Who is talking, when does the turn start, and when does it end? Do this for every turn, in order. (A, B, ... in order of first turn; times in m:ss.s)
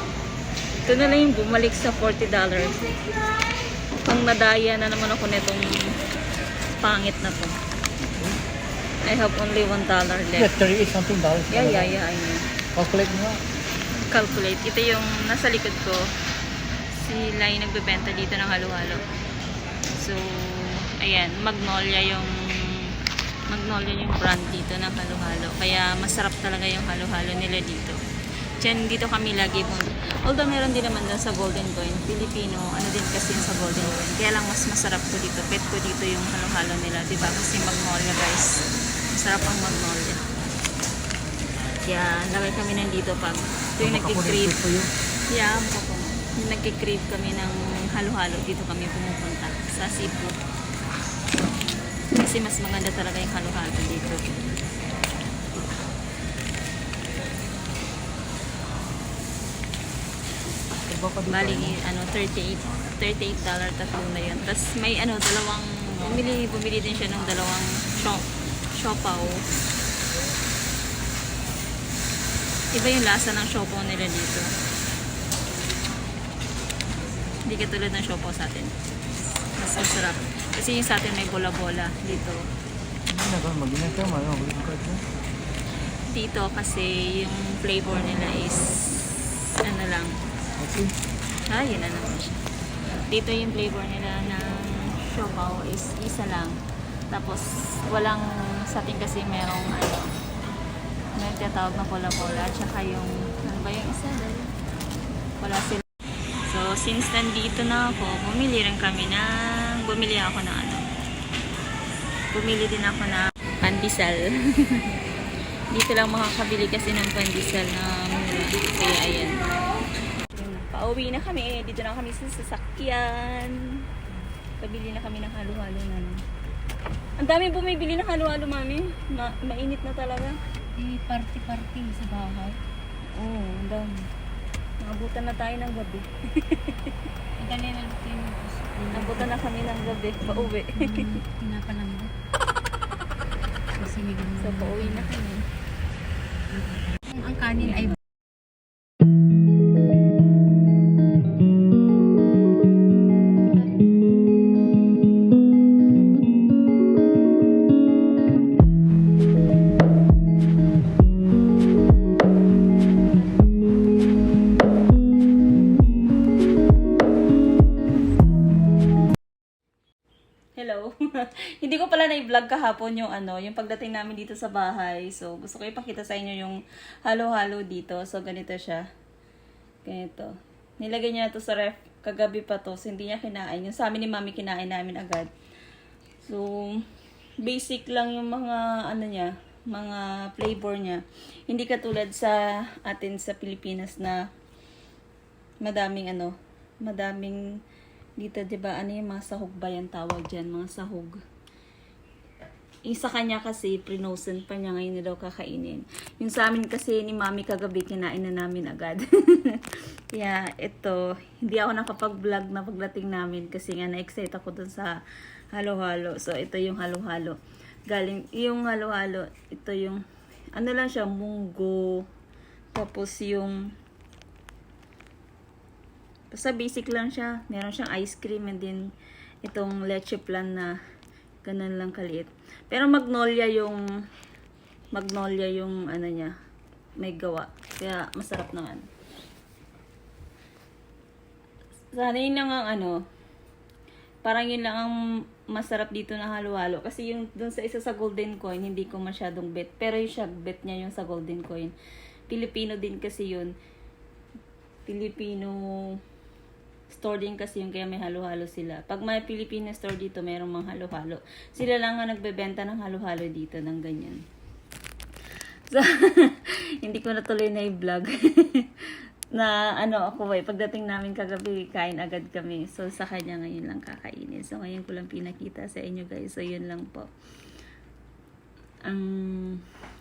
0:00.8-0:03.2 A
0:04.0-0:05.7 A
0:06.8-0:07.5 A
0:09.0-0:10.5 A
0:10.4-0:12.0 B
0:11.5-0:12.5 A
0:12.7-0:13.4 B
0:14.1-0:16.1 A
0:16.9-0:19.0 A
0:19.9-0:22.9 A
0:23.5-0:28.0 A
0:28.6-0:40.2 A
0:41.8-0:44.6 A
0:43.8-0:44.9 B
0:45.3-0:50.4 A
0:52.1-0:54.5 A
1:00.9-1:01.8 B
1:01.3-1:09.4 A
1:12.7-1:14.5 A
1:17.4-1:18.7 A
1:19.6-1:22.5 A
1:23.1-1:25.0 B
1:26.1-1:30.2 A
1:30.6-1:30.9 B
1:31.5-1:32.4 A
1:33.1-1:36.6 A
1:37.1-1:40.1 A
1:41.2-1:44.5 A
1:45.4-1:45.8 A
1:46.5-1:50.8 A
1:52.3-1:54.9 A
1:55.7-1:59.4 A
2:00.3-2:03.6 A
2:04.6-2:06.2 A
2:07.2-2:10.4 A
2:10.8-2:12.6 C
2:13.1-2:14.1 A
2:14.8-2:16.9 A
2:17.4-2:19.3 C
2:18.9-2:21.2 A
2:20.2-2:22.1 C
2:23.8-2:25.2 C
2:24.4-2:25.4 A
2:26.5-2:28.0 C
2:27.6-2:27.9 A
2:50.6-2:58.8 A
2:59.8-3:05.3 A
3:06.3-3:06.8 A
3:07.4-3:14.2 A
3:15.6-3:17.4 A
3:18.2-3:21.2 A
3:22.9-3:35.0 A
3:35.5-3:37.4 A
3:37.9-3:40.0 A
3:40.5-3:42.0 A
3:42.7-3:43.6 A
3:46.3-3:48.9 A
3:49.4-3:50.8 A
3:51.4-3:53.8 A
3:54.9-3:56.3 A
3:57.0-3:58.8 A
4:01.9-4:03.0 A
4:04.2-4:04.9 A
4:05.5-4:11.7 A
4:12.3-4:13.5 A
4:14.8-4:16.0 A
4:16.9-4:24.2 A
4:25.7-4:37.1 A
4:38.8-4:39.6 A